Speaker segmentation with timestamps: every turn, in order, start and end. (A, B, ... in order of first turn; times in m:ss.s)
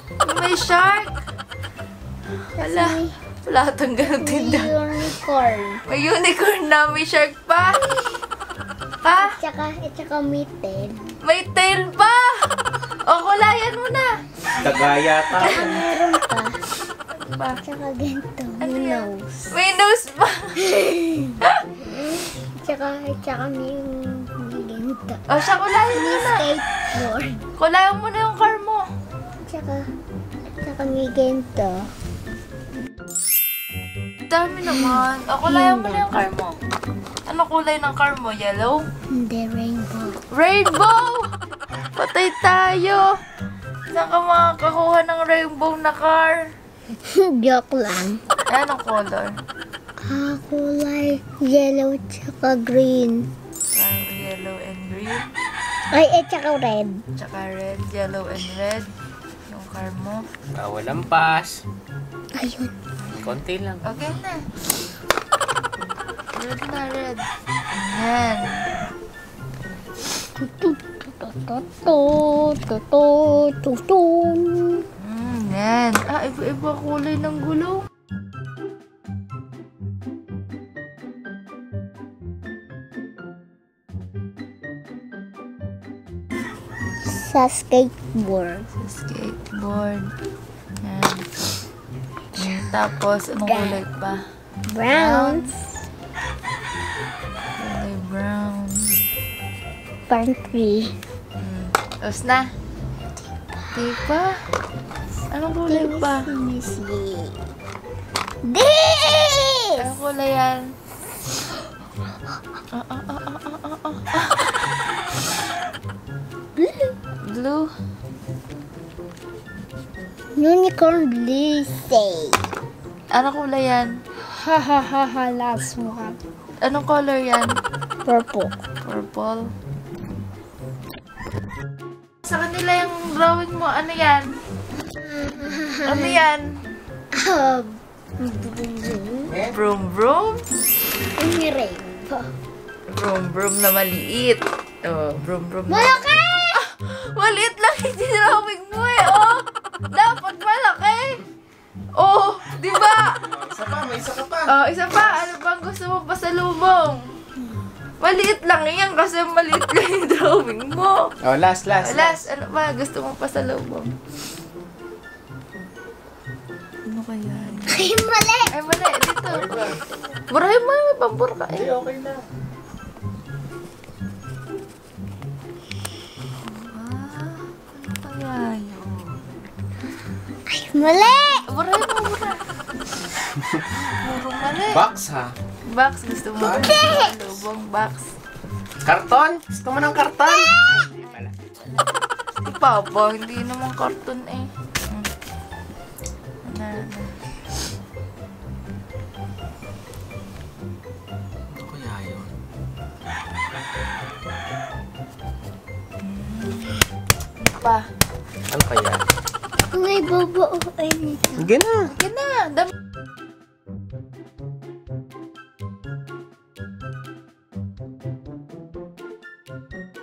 0:00.2-0:01.1 A
0:02.6-0:03.1 B
0:02.6-0:04.7 A
0:04.0-0:05.8 B
0:05.9-0:07.8 A
0:09.0-0:09.4 A
0:09.2-0:11.0 B
0:11.2-0:12.5 A
0:13.0-0:14.2 A
0:14.5-0:15.8 C
0:15.4-0:16.1 A
0:15.4-0:16.6 B
0:17.1-0:17.6 A
0:17.6-0:19.5 B
0:18.6-0:20.9 A
0:20.7-0:25.2 B
0:21.4-0:21.6 A
0:25.3-0:26.5 A
0:25.9-0:27.4 B
0:27.6-0:28.8 A
0:29.4-0:29.8 B
0:30.6-0:31.9 B
0:34.3-0:36.6 A
0:34.6-0:36.1 B
0:37.2-0:38.8 A
0:39.1-0:40.2 B
0:40.3-0:41.3 A
0:41.9-0:43.2 A
0:43.9-0:46.4 A
0:47.0-0:48.2 B
0:48.5-0:49.3 A
0:50.1-0:53.3 B
0:53.7-0:55.2 A
0:55.9-0:57.0 B
0:57.2-0:58.9 A
0:59.5-1:00.2 A
1:00.5-1:01.6 C
1:02.3-1:02.7 B
1:03.0-1:04.4 A
1:03.1-1:03.8 C
1:06.3-1:08.6 A
1:10.4-1:14.8 B
1:15.0-1:17.8 A
1:27.1-1:28.6 B
1:28.8-1:30.1 A
1:30.8-1:31.2 A
1:32.4-1:34.2 A
1:32.4-1:32.7 B
1:33.4-1:33.8 B
1:34.7-1:35.5 B
1:34.9-1:35.5 A
1:37.6-1:39.0 A
1:40.1-1:40.9 B
1:41.4-1:42.4 A
1:43.7-1:44.4 A
1:45.3-1:46.3 A
1:45.7-1:47.5 B
1:48.4-1:50.0 B
1:49.8-1:50.7 A
1:52.7-1:54.6 A
1:56.6-1:56.9 B
1:57.3-1:57.7 A
2:00.4-2:02.4 B
2:03.1-2:03.9 A
2:04.3-2:06.2 B
2:06.6-2:07.5 A
2:08.0-2:08.6 B
2:08.8-2:09.5 A
2:12.2-2:14.3 A
2:15.0-2:16.2 B
2:15.8-2:16.4 A
2:17.1-2:19.4 B
2:19.3-2:19.6 C
2:19.5-2:20.4 A
2:21.2-2:22.3 B
2:22.9-2:31.2 A
2:25.7-2:26.6 B
2:32.0-2:33.2 A
2:33.3-2:34.5 C
2:34.4-2:37.0 A
2:38.0-2:41.1 A
2:41.2-2:42.2 C
2:41.8-2:43.9 A
2:46.8-2:47.9 A
2:47.7-2:48.5 B
2:48.5-2:49.8 A
2:49.4-2:49.8 C
2:50.3-2:51.7 A
2:51.5-2:52.2 C
2:56.4-2:59.2 A
3:00.5-3:01.4 B
3:01.5-3:02.4 A
3:03.3-3:03.6 C
3:03.7-3:04.8 A
3:04.7-3:05.3 C
3:05.7-3:08.0 A
3:06.4-3:06.8 C
3:06.5-3:07.2 B
3:08.8-3:10.5 C
3:10.2-3:10.5 B
3:10.6-3:11.6 A
3:12.4-3:15.1 A
3:16.4-3:17.1 A
3:21.5-3:22.3 C
3:26.0-3:26.8 A
3:27.4-3:27.8 A
3:28.5-3:29.0 C
3:29.7-3:31.5 B
3:31.4-3:31.9 C
3:31.9-3:32.7 A